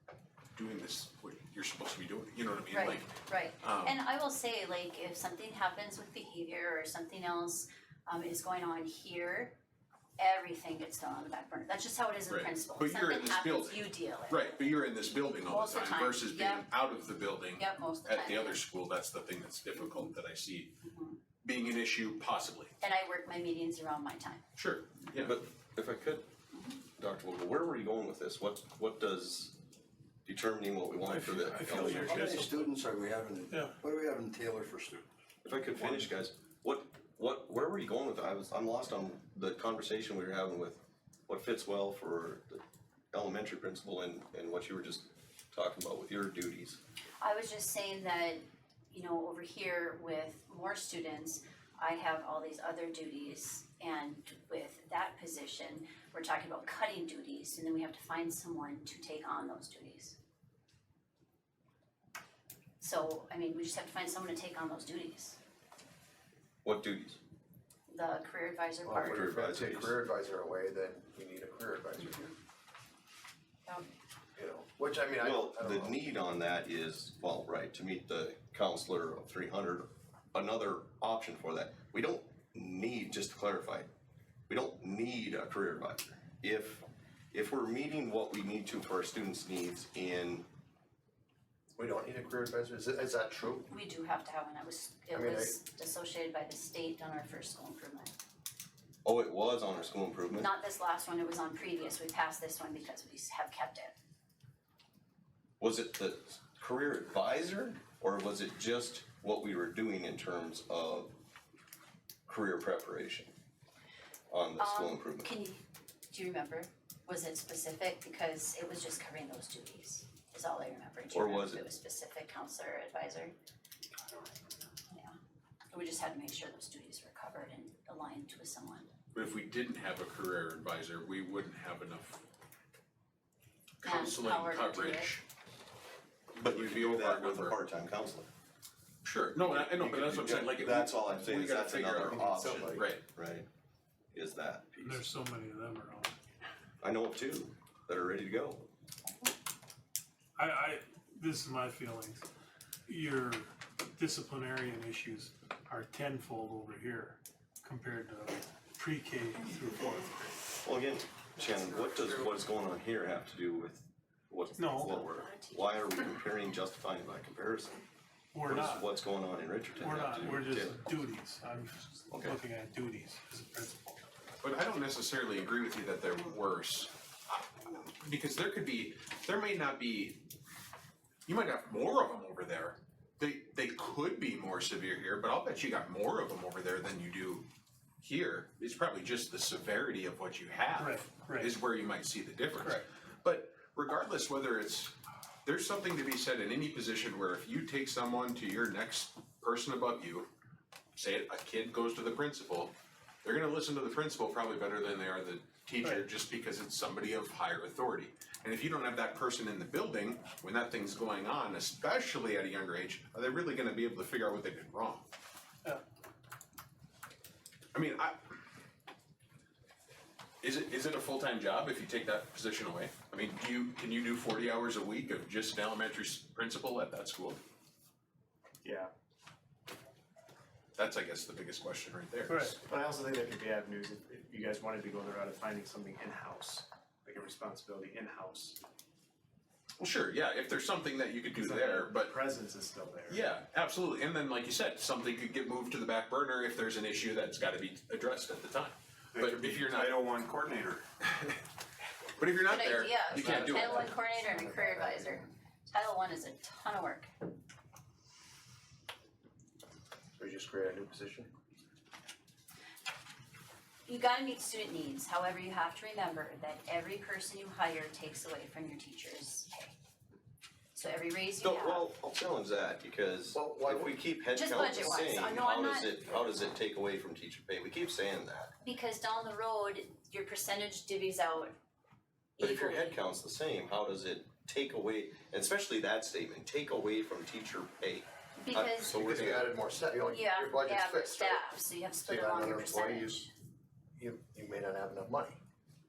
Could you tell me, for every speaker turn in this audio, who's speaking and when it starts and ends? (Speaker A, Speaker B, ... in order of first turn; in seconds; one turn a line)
Speaker A: 0.5-4.0
Speaker B: 2.7-9.6
Speaker B: 10.2-14.7
Speaker A: 12.3-20.8
Speaker B: 15.4-16.8
Speaker B: 17.5-18.6
Speaker B: 20.8-21.2
Speaker A: 21.4-22.7
Speaker B: 22.8-24.4
Speaker A: 24.6-25.4
Speaker C: 25.1-26.2
Speaker C: 27.0-29.6
Speaker C: 30.2-32.4
Speaker D: 31.1-32.5
Speaker E: 31.6-35.0
Speaker D: 33.5-33.8
Speaker C: 35.4-46.8
Speaker B: 47.2-60.2
Speaker B: 62.8-65.4
Speaker C: 66.6-67.2
Speaker B: 67.9-69.3
Speaker F: 68.8-72.3
Speaker C: 69.0-69.9
Speaker F: 74.3-75.9
Speaker C: 75.2-83.9
Speaker C: 84.5-90.4
Speaker F: 91.8-93.7
Speaker B: 93.7-98.1
Speaker F: 95.1-95.5
Speaker C: 99.0-100.5
Speaker B: 100.3-103.9
Speaker C: 105.6-111.1
Speaker C: 112.3-113.3
Speaker C: 114.3-115.3
Speaker B: 114.6-123.3
Speaker C: 121.1-121.6
Speaker B: 124.9-125.2
Speaker B: 125.7-128.9
Speaker A: 129.1-132.2
Speaker A: 133.8-135.2
Speaker B: 133.8-135.2
Speaker A: 136.3-137.6
Speaker C: 136.4-138.3
Speaker A: 139.0-143.0
Speaker C: 139.3-143.4
Speaker C: 144.1-145.1
Speaker D: 144.8-146.2
Speaker C: 146.8-148.7
Speaker D: 150.3-152.2
Speaker D: 152.8-160.3
Speaker C: 160.6-167.8
Speaker D: 164.6-164.9
Speaker D: 168.3-168.8
Speaker C: 168.4-170.8
Speaker D: 169.8-173.8
Speaker C: 172.1-172.4
Speaker A: 174.4-180.2
Speaker A: 181.3-187.4
Speaker A: 188.0-200.3
Speaker D: 190.8-191.6
Speaker A: 200.9-202.7
Speaker A: 203.2-215.1
Speaker A: 217.7-218.3
Speaker A: 220.4-227.4
Speaker G: 228.6-228.9
Speaker A: 230.8-232.6
Speaker D: 232.3-232.5
Speaker G: 232.6-238.6
Speaker A: 239.8-242.2
Speaker G: 241.3-243.3
Speaker A: 243.1-250.0
Speaker G: 249.1-250.8
Speaker A: 251.0-251.4
Speaker A: 252.2-253.8
Speaker B: 252.4-257.1
Speaker G: 253.2-253.9
Speaker F: 253.2-255.2
Speaker F: 260.2-261.3
Speaker B: 263.9-269.7
Speaker B: 270.7-271.9
Speaker C: 271.4-278.5
Speaker F: 273.3-273.9
Speaker B: 274.3-276.3
Speaker B: 278.6-281.6
Speaker B: 282.4-283.0
Speaker C: 282.4-289.5
Speaker B: 288.4-289.0
Speaker F: 288.9-291.5
Speaker B: 290.1-293.3
Speaker F: 292.0-293.2
Speaker F: 294.0-295.4